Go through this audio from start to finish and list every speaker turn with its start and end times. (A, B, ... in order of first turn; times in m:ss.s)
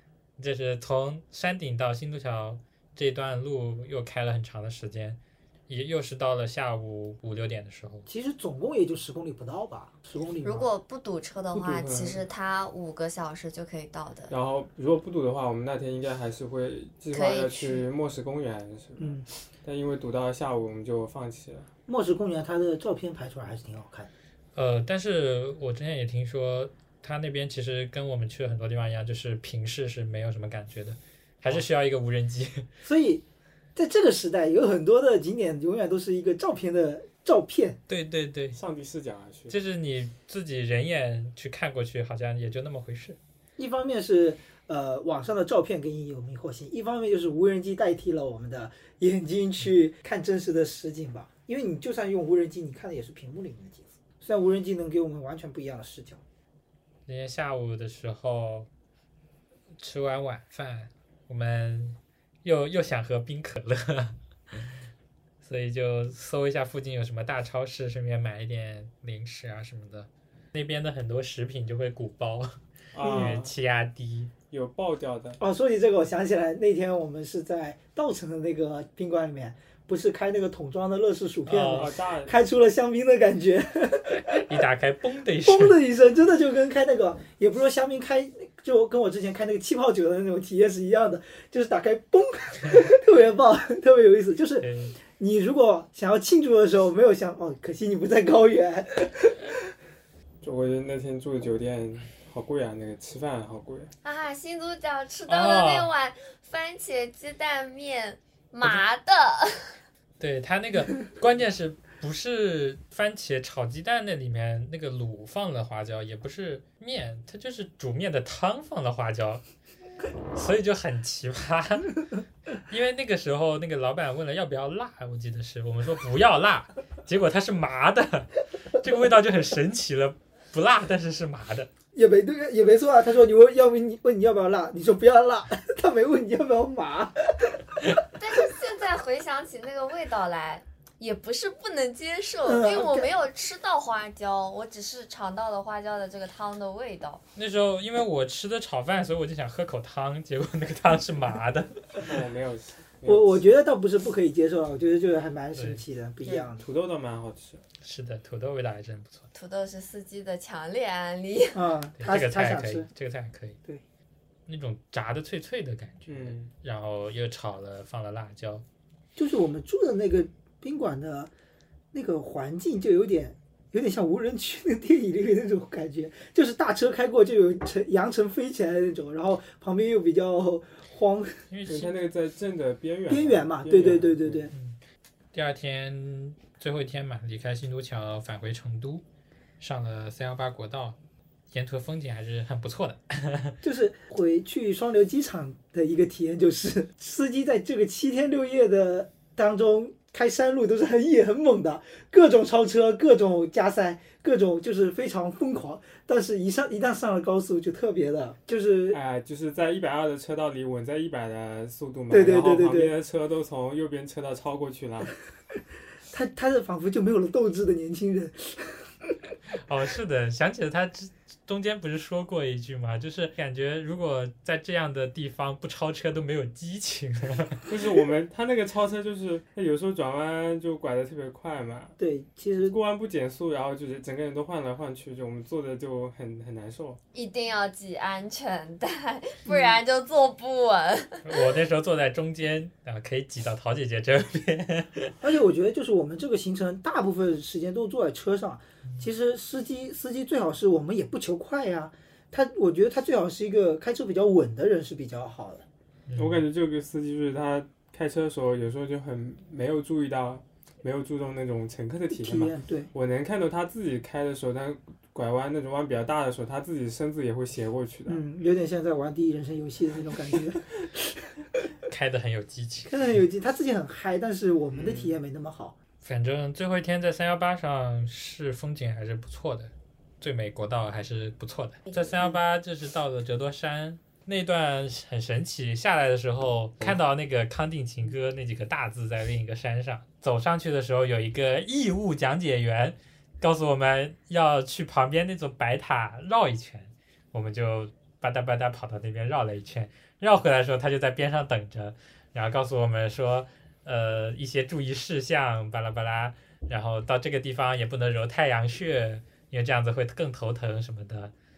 0:00.4-0:08.1 A
0:08.1-0:10.7 B
0:10.4-0:14.3 C
0:11.5-0:12.2 D
0:14.3-0:21.7 D
0:17.1-0:17.9 C
0:19.0-0:19.3 B
0:21.9-0:24.1 B
0:24.6-0:32.7 A
0:32.8-0:37.8 B
0:37.9-0:38.6 A
0:38.5-0:39.6 D
0:39.5-0:43.2 A
0:43.6-0:56.2 B
0:57.1-0:58.7 A
0:59.8-1:04.6 A
1:05.4-1:14.3 A
1:12.9-1:13.5 D
1:14.5-1:15.4 D
1:15.4-1:24.6 B
1:21.5-1:21.9 A
1:21.6-1:22.4 D
1:24.2-1:25.8 A
1:25.4-1:39.6 B
1:34.6-1:35.0 A
1:40.4-1:43.9 D
1:44.0-1:49.8 C
1:45.3-1:45.9 A
1:50.2-1:59.4 A
2:00.3-2:02.0 A
2:02.6-2:11.7 A
2:11.9-2:17.8 B
2:18.2-2:27.2 C
2:22.4-2:23.1 B
2:27.4-2:31.8 A
2:32.0-2:33.4 D
2:33.0-2:36.6 B
2:35.6-2:35.8 A
2:36.2-2:37.6 D
2:37.8-2:39.3 A
2:39.3-2:41.6 C
2:41.5-2:42.9 B
2:42.0-2:43.6 A
2:44.5-2:48.6 A
2:46.1-2:46.5 D
2:49.2-2:51.3 B
2:51.9-3:01.5 B
3:01.5-3:02.0 A
3:01.7-3:04.5 D
3:03.1-3:04.5 B
3:04.5-3:04.8 A
3:05.3-3:09.0 A
3:09.6-3:11.0 A
3:11.5-3:13.6 A
3:13.6-3:29.0 B
3:28.9-3:35.2 D
3:32.1-3:32.9 B
3:36.1-3:39.1 B
3:39.6-3:47.7 A
3:47.7-3:52.0 D
3:52.0-3:52.8 B
3:52.6-3:57.0 D
3:57.1-4:01.5 C
3:59.5-3:59.8 B
4:01.2-4:05.2 A
4:05.2-4:15.7 B
4:16.1-4:16.4 A
4:16.2-4:28.2 D
4:22.1-4:22.9 B
4:28.1-4:31.3 B
4:31.9-4:32.9 A
4:32.9-4:35.8 B
4:34.8-4:35.2 D
4:36.0-5:11.3 A